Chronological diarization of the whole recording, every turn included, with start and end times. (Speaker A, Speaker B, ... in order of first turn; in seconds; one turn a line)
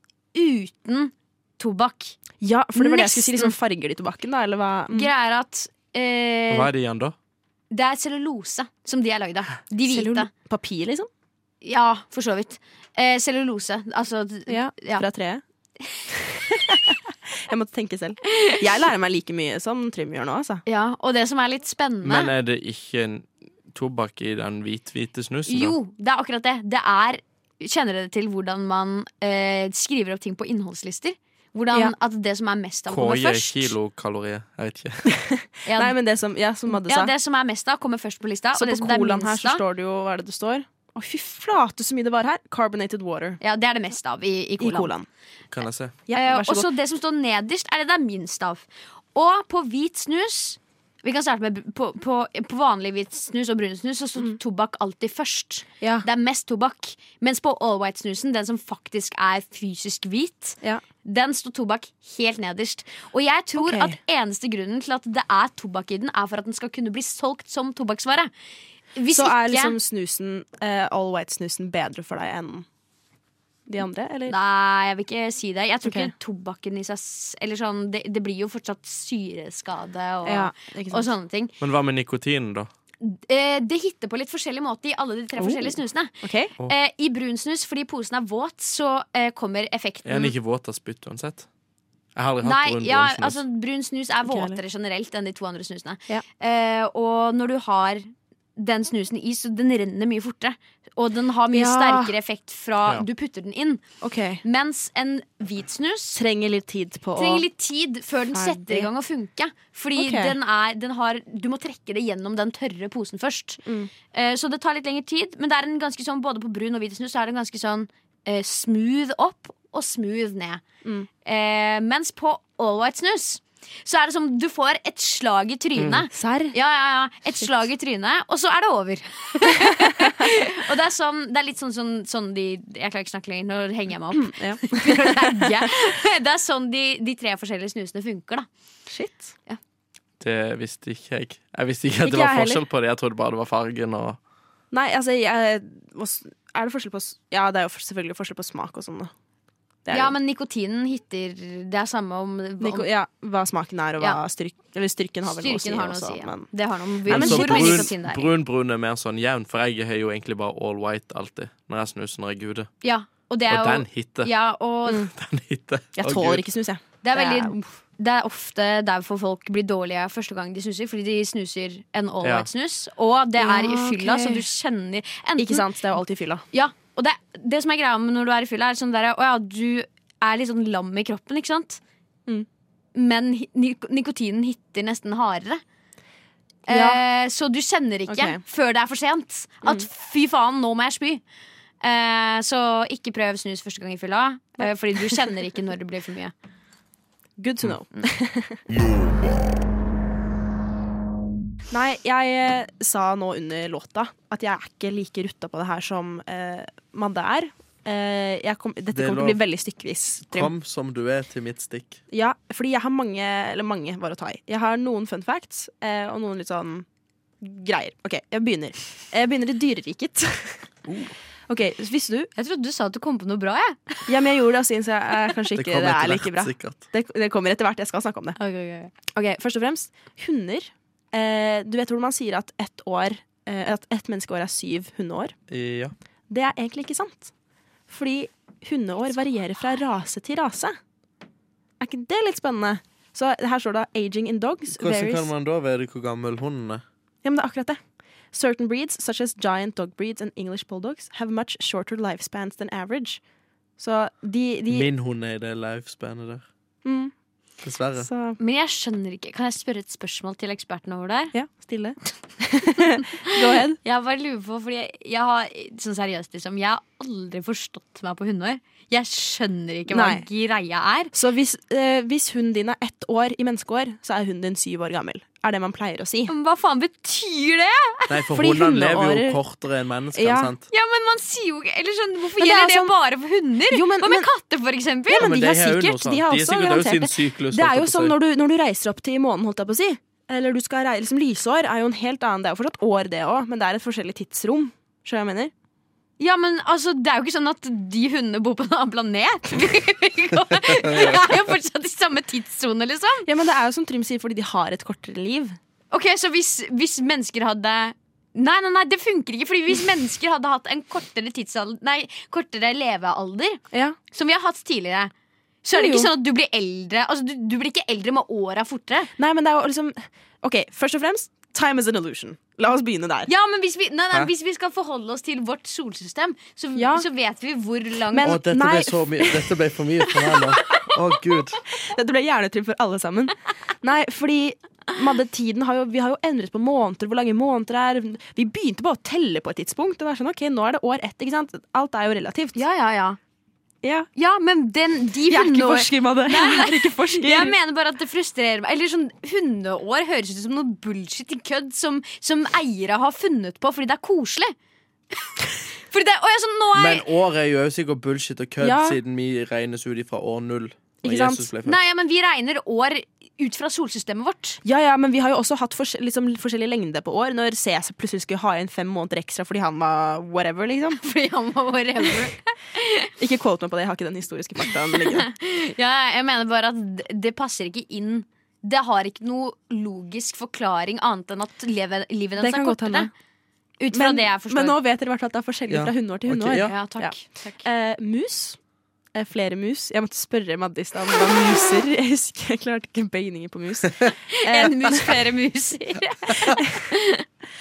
Speaker A: 0.3-2.2
Speaker B: 2.4-5.1
Speaker A: 2.8-3.5
Speaker A: 4.9-6.7
Speaker C: 6.5-7.2
Speaker A: 7.7-10.3
Speaker B: 9.9-11.1
Speaker A: 11.6-15.0
Speaker B: 14.5-15.4
Speaker B: 16.1-20.6
Speaker A: 20.7-22.3
Speaker C: 22.0-25.8
Speaker A: 25.5-33.7
Speaker C: 32.9-35.1
Speaker B: 35.1-37.1
Speaker A: 35.7-36.0
Speaker A: 36.7-39.6
Speaker B: 38.5-43.4
Speaker A: 43.4-44.9
Speaker B: 44.6-45.1
Speaker C: 45.5-46.0
Speaker B: 46.1-46.7
Speaker A: 46.1-68.3
Speaker B: 55.8-56.1
Speaker B: 63.6-64.0
Speaker A: 69.0-69.8
Speaker B: 69.1-72.7
Speaker B: 73.7-74.3
Speaker A: 74.3-81.5
Speaker B: 75.8-76.1
Speaker B: 80.2-81.1
Speaker C: 81.6-82.7
Speaker A: 83.0-90.3
Speaker B: 85.4-86.5
Speaker C: 90.0-91.5
Speaker C: 92.2-93.4
Speaker A: 92.4-103.8
Speaker B: 94.3-94.6
Speaker B: 101.5-102.1
Speaker B: 104.0-104.4
Speaker A: 104.4-106.2
Speaker B: 106.2-107.5
Speaker A: 107.2-120.6
Speaker B: 108.3-108.9
Speaker B: 110.0-110.3
Speaker B: 113.7-113.9
Speaker A: 121.2-138.5
Speaker C: 125.8-126.0
Speaker B: 126.1-126.5
Speaker B: 134.1-135.7
Speaker B: 138.9-139.3
Speaker C: 140.2-144.2
Speaker B: 142.0-142.6
Speaker B: 144.7-149.1
Speaker B: 149.9-150.2
Speaker A: 149.9-152.9
Speaker B: 152.6-156.5
Speaker A: 155.3-158.3
Speaker B: 157.1-157.9
Speaker C: 157.1-162.7
Speaker A: 162.8-165.1
Speaker C: 163.5-164.3
Speaker C: 165.1-166.4
Speaker B: 166.0-167.6
Speaker A: 167.0-175.7
Speaker B: 173.4-174.4
Speaker B: 175.4-176.4
Speaker A: 176.5-181.8
Speaker A: 182.9-185.6
Speaker A: 186.7-191.2
Speaker B: 186.7-187.0
Speaker B: 188.1-188.4
Speaker A: 191.8-196.3
Speaker B: 197.4-198.6
Speaker B: 201.7-210.5
Speaker C: 208.9-209.4
Speaker C: 210.3-212.0
Speaker B: 212.1-216.9
Speaker B: 217.4-220.7
Speaker C: 220.9-221.2
Speaker B: 221.5-222.3
Speaker A: 222.4-224.1
Speaker B: 224.1-228.4
Speaker C: 225.6-226.8
Speaker A: 228.4-228.9
Speaker B: 229.1-235.3
Speaker C: 235.5-235.9
Speaker B: 236.3-237.3
Speaker B: 237.9-240.8
Speaker B: 241.8-245.3
Speaker C: 244.7-246.8
Speaker B: 247.2-247.8
Speaker B: 248.3-253.2
Speaker B: 253.8-254.9
Speaker C: 254.7-256.4
Speaker B: 256.8-257.1
Speaker C: 257.6-258.1
Speaker B: 258.0-258.4
Speaker A: 258.4-261.3
Speaker B: 261.3-263.8
Speaker A: 262.8-271.1
Speaker B: 269.9-270.2
Speaker B: 271.1-276.3
Speaker A: 276.3-278.1
Speaker C: 278.1-280.6
Speaker B: 278.3-279.4
Speaker B: 280.1-280.5
Speaker A: 280.7-285.3
Speaker B: 282.4-282.9
Speaker B: 283.7-284.3
Speaker B: 285.1-295.5
Speaker C: 285.2-288.1
Speaker A: 296.2-303.3
Speaker C: 300.9-301.2
Speaker B: 303.3-305.6
Speaker A: 305.9-315.1
Speaker B: 313.7-314.0
Speaker A: 315.6-319.1
Speaker B: 315.7-316.1
Speaker B: 319.2-323.3
Speaker A: 323.3-328.4
Speaker B: 326.8-327.1
Speaker B: 328.1-329.5
Speaker C: 328.2-331.6
Speaker B: 331.8-342.6
Speaker A: 342.6-343.2
Speaker B: 343.8-344.1
Speaker A: 344.2-354.5
Speaker B: 345.3-347.6
Speaker A: 355.9-357.1
Speaker C: 356.7-361.8
Speaker B: 358.6-359.0
Speaker B: 361.0-361.5
Speaker A: 361.6-364.6
Speaker B: 364.6-371.0
Speaker A: 371.0-373.1
Speaker B: 373.2-375.3
Speaker A: 375.0-383.1
Speaker B: 382.4-383.1
Speaker A: 383.8-384.8
Speaker B: 383.9-388.6
Speaker C: 385.7-386.7
Speaker A: 386.6-387.7
Speaker B: 389.1-395.2
Speaker A: 394.3-397.2
Speaker B: 396.4-396.8